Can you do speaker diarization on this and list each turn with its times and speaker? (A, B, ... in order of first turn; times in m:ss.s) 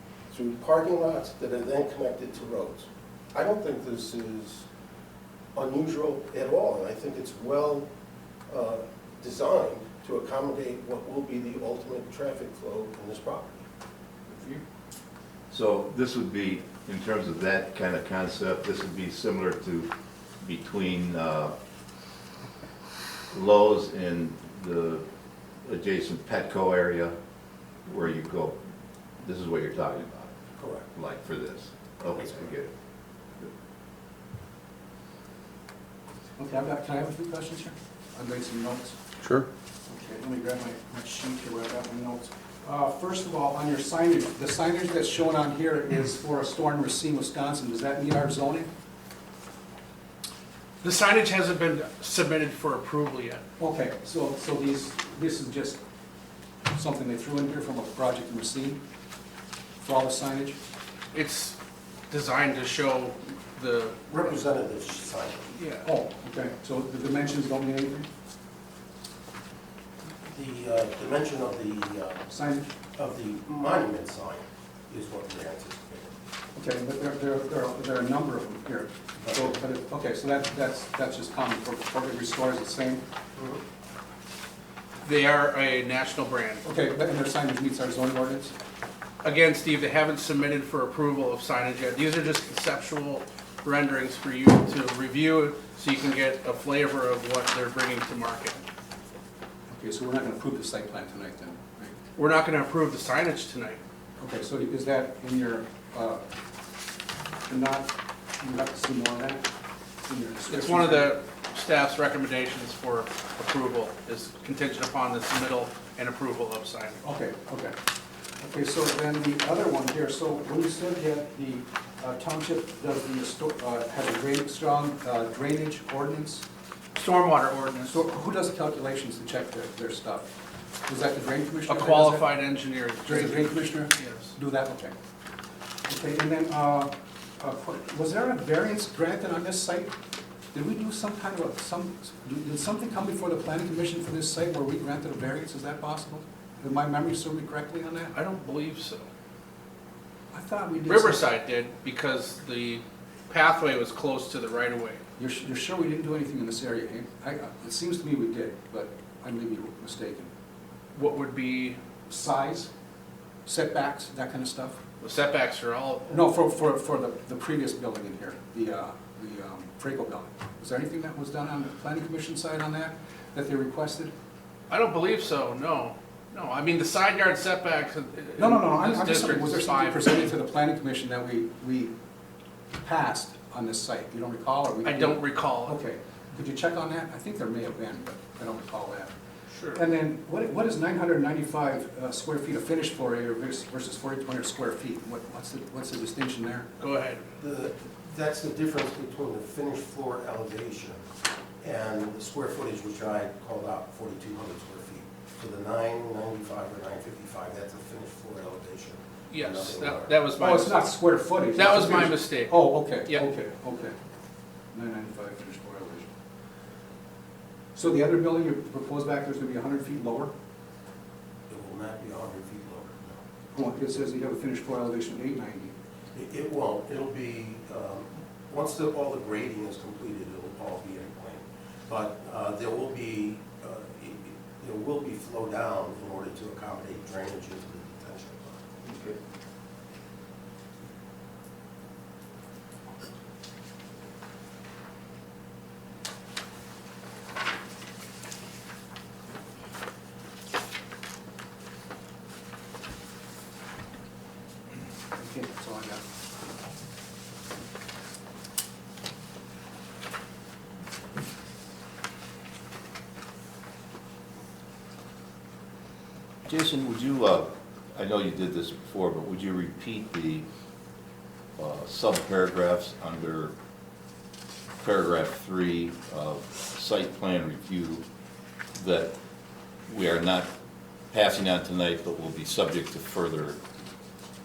0:00.3-0:04.6 A
0:05.5-0:07.9 A
0:08.5-0:13.6 A
0:14.3-0:14.6 B
0:15.5-0:19.9 C
0:20.4-0:21.5 C
0:23.3-0:25.0 C
0:25.6-0:27.1 C
0:27.8-0:28.6 C
0:29.2-0:30.3 C
0:30.6-0:30.9 A
0:30.9-0:32.7 C
0:32.1-0:32.5 A
0:36.4-0:39.0 D
0:39.9-0:48.7 D
0:50.8-0:53.4 B
0:53.6-0:55.8 D
0:56.7-0:58.8 D
0:59.8-1:00.6 D
1:01.1-1:01.6 B
1:02.1-1:04.1 B
1:04.1-1:05.5 A
1:05.5-1:05.8 B
1:05.8-1:08.1 D
1:10.2-1:12.3 A
1:12.3-1:12.7 D
1:12.9-1:16.1 A
1:16.5-1:23.0 D
1:19.2-1:19.6 A
1:23.4-1:23.6 A
1:25.0-1:26.6 B
1:26.6-1:28.5 D
1:29.2-1:38.6 B
1:39.7-1:42.0 D
1:42.2-1:43.8 B
1:44.2-1:46.2 D
1:47.5-1:49.4 D
1:50.0-1:51.2 D
1:50.5-1:57.0 B
1:57.0-1:57.7 D
1:58.4-2:06.4 D
2:06.9-2:08.0 B
2:07.8-2:10.3 D
2:10.8-2:12.4 D
2:11.7-2:14.3 B
2:13.0-2:14.9 D
2:15.8-2:19.9 D
2:20.5-2:28.1 D
2:28.1-2:29.1 B
2:30.3-2:31.3 D
2:30.8-2:35.0 B
2:35.2-2:40.3 D
2:40.9-2:41.8 B
2:42.1-2:42.7 D
2:43.4-2:44.8 D
2:45.0-2:46.1 B
2:46.1-2:54.1 D
2:54.7-3:00.3 B
2:58.4-3:01.9 D
3:02.8-3:09.1 D
3:04.8-3:05.8 B
3:09.5-3:09.8 B
3:09.7-3:16.7 D
3:16.8-3:17.2 B
3:17.4-3:21.0 A
3:21.6-3:30.1 A
3:29.3-3:31.0 B
3:30.4-3:33.9 D
3:31.5-3:33.2 B
3:34.7-3:36.1 D
3:37.7-3:40.3 D
3:41.5-3:43.2 A
3:43.5-3:45.7 D
3:46.1-3:58.8 A
4:15.1-4:16.0 D
4:26.4-4:30.4 C
4:31.6-4:33.5 C
4:34.8-4:38.0 C
4:38.8-4:39.1 C
4:39.9-4:40.5 C
4:41.1-4:43.6 C